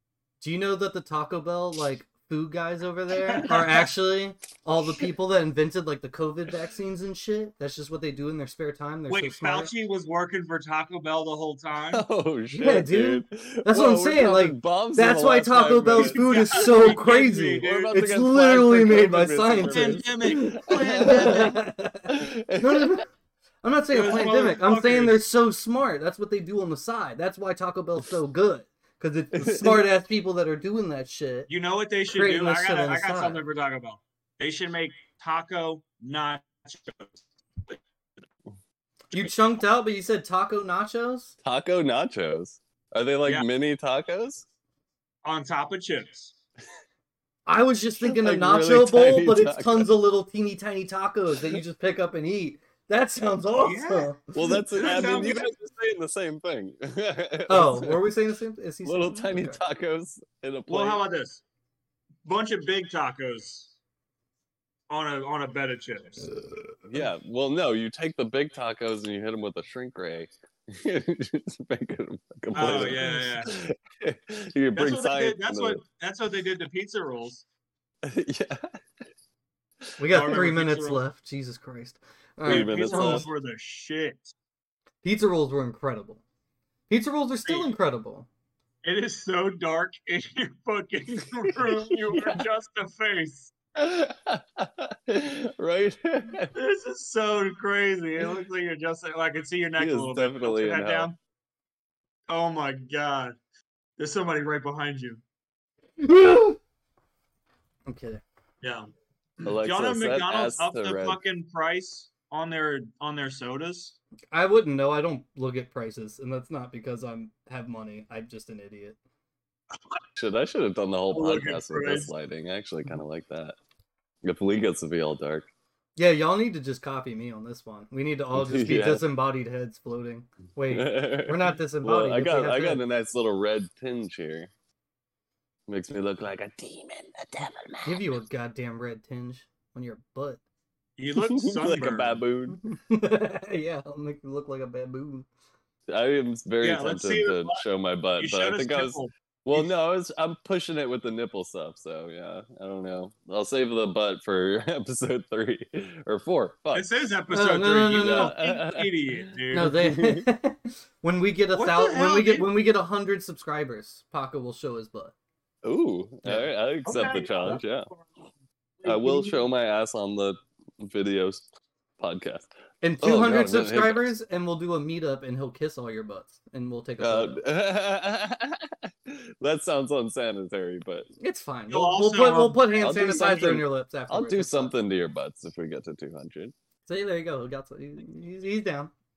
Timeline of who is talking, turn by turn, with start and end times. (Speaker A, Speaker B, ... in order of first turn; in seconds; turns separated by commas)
Speaker A: 0.4-9.7, Speaker B: 3.3-3.9, Speaker B: 9.1-12.1, Speaker C: 11.9-23.0, Speaker A: 12.5-23.1, Speaker B: 15.9-17.9, Speaker B: 19.6-21.6, Speaker A: 23.6-31.5, Speaker B: 23.9-25.2, Speaker C: 29.3-29.8, Speaker B: 31.5-37.8, Speaker A: 32.1-33.4, Speaker A: 39.1-41.4, Speaker C: 41.4-44.5, Speaker B: 45.2-46.3, Speaker A: 47.5-54.7, Speaker C: 48.0-50.0, Speaker B: 53.6-54.2, Speaker C: 54.3-58.1, Speaker B: 54.7-55.5, Speaker A: 57.5-59.6, Speaker C: 58.9-61.0, Speaker B: 60.7-61.4, Speaker B: 62.2-63.7, Speaker B: 64.9-66.3, Speaker C: 66.8-75.8, Speaker B: 72.5-73.5, Speaker A: 72.7-73.4, Speaker B: 74.8-77.4, Speaker C: 78.0-78.8, Speaker A: 80.0-83.3, Speaker B: 80.1-81.0, Speaker C: 82.4-83.3, Speaker B: 82.5-84.3, Speaker A: 85.0-86.2, Speaker A: 86.9-88.3, Speaker B: 88.8-93.5, Speaker C: 92.1-92.4, Speaker C: 93.8-96.5, Speaker B: 96.5-101.2, Speaker C: 99.8-101.1, Speaker B: 102.3-103.3, Speaker B: 104.0-105.2, Speaker A: 106.0-106.6, Speaker A: 107.9-108.2, Speaker B: 108.6-114.0, Speaker C: 109.5-111.2, Speaker A: 114.3-119.0, Speaker C: 120.2-123.6, Speaker B: 121.1-122.1, Speaker C: 124.2-125.5, Speaker A: 126.0-132.8, Speaker C: 128.3-129.1, Speaker C: 130.7-134.5, Speaker C: 135.7-138.1, Speaker A: 137.8-140.4, Speaker B: 141.0-142.2, Speaker C: 141.2-142.6, Speaker A: 142.5-145.3, Speaker C: 145.9-156.9, Speaker B: 146.6-147.6, Speaker B: 148.2-149.7, Speaker B: 156.7-159.8, Speaker A: 157.3-158.3, Speaker C: 158.0-160.3, Speaker A: 159.5-165.1, Speaker B: 161.5-162.5, Speaker C: 165.6-167.9, Speaker A: 166.2-166.5, Speaker B: 166.8-168.0, Speaker B: 168.8-169.4, Speaker C: 168.8-171.5, Speaker C: 172.0-172.5, Speaker A: 172.8-177.4, Speaker C: 173.0-174.1, Speaker C: 177.0-181.1, Speaker A: 181.2-184.7, Speaker B: 181.7-183.5, Speaker C: 182.8-186.5, Speaker A: 186.9-188.9